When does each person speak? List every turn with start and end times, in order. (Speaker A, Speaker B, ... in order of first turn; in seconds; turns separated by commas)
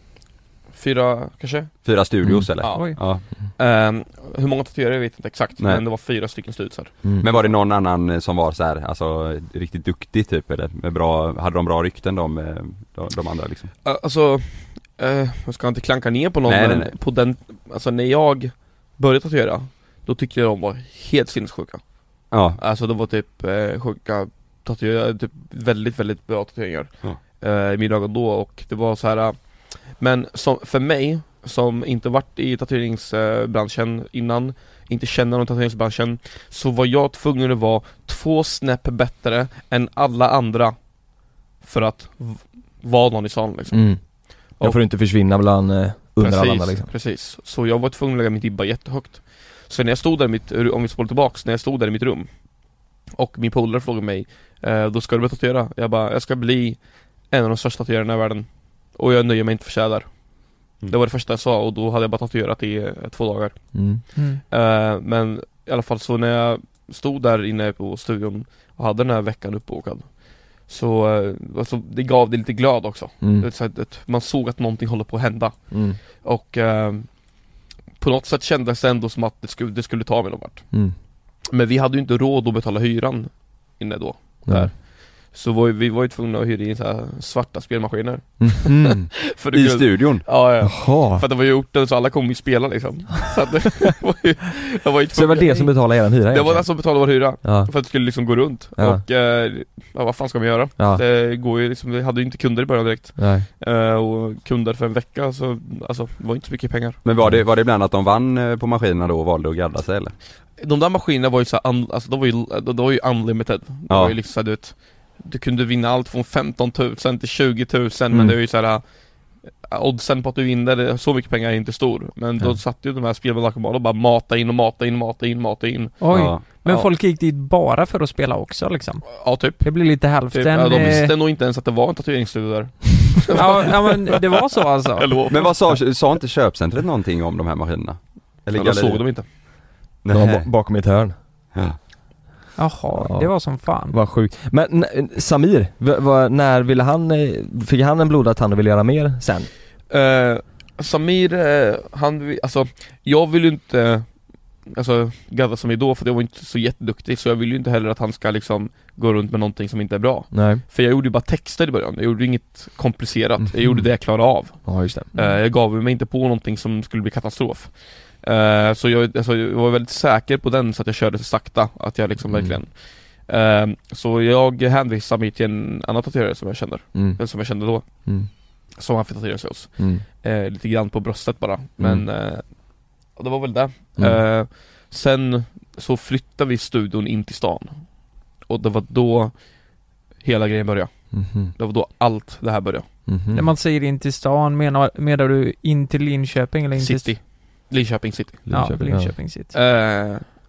Speaker A: 0.7-1.8, Speaker B: 1.8-3.2, Speaker C: 2.2-2.5, Speaker A: 2.6-7.5, Speaker D: 2.7-3.0, Speaker B: 7.2-13.7, Speaker A: 13.8-21.8, Speaker B: 16.5-16.9, Speaker B: 22.3-22.6, Speaker A: 22.6-29.4, Speaker A: 29.9-40.8, Speaker A: 41.6-44.8, Speaker C: 43.7-46.9, Speaker A: 46.2-52.3, Speaker A: 53.1-60.1, Speaker A: 60.9-63.8, Speaker C: 63.7-64.0, Speaker D: 64.1-64.4, Speaker A: 64.5-75.6, Speaker C: 73.2-73.5, Speaker C: 75.7-76.0, Speaker A: 76.2-77.1, Speaker A: 78.0-80.7, Speaker A: 81.5-107.0, Speaker C: 84.5-84.7, Speaker C: 88.4-89.1, Speaker B: 89.5-90.3, Speaker C: 90.6-91.2, Speaker C: 95.1-97.7, Speaker C: 98.8-99.0, Speaker C: 100.8-101.0, Speaker C: 103.2-103.5, Speaker B: 107.0-110.2, Speaker A: 110.6-118.8, Speaker B: 113.9-114.1, Speaker A: 119.7-126.0, Speaker D: 126.0-131.1, Speaker B: 126.1-126.4, Speaker A: 129.2-134.2, Speaker D: 133.3-135.1, Speaker A: 134.9-135.6, Speaker B: 135.3-139.2, Speaker A: 138.5-139.2, Speaker B: 140.0-140.5, Speaker C: 140.1-141.1, Speaker D: 142.6-144.0, Speaker C: 142.9-149.5, Speaker A: 149.9-177.8, Speaker C: 160.3-160.6, Speaker C: 163.4-163.9, Speaker C: 164.6-165.1, Speaker C: 172.2-172.6, Speaker C: 176.9-177.2, Speaker A: 178.7-182.5, Speaker C: 179.8-180.0, Speaker C: 181.8-182.0, Speaker A: 183.1-187.8, Speaker A: 188.4-189.3, Speaker A: 190.2-192.8, Speaker C: 191.1-191.5, Speaker C: 193.1-193.4, Speaker D: 193.3-197.1, Speaker A: 196.8-198.5, Speaker C: 198.5-199.1, Speaker D: 198.5-199.5, Speaker A: 199.5-200.3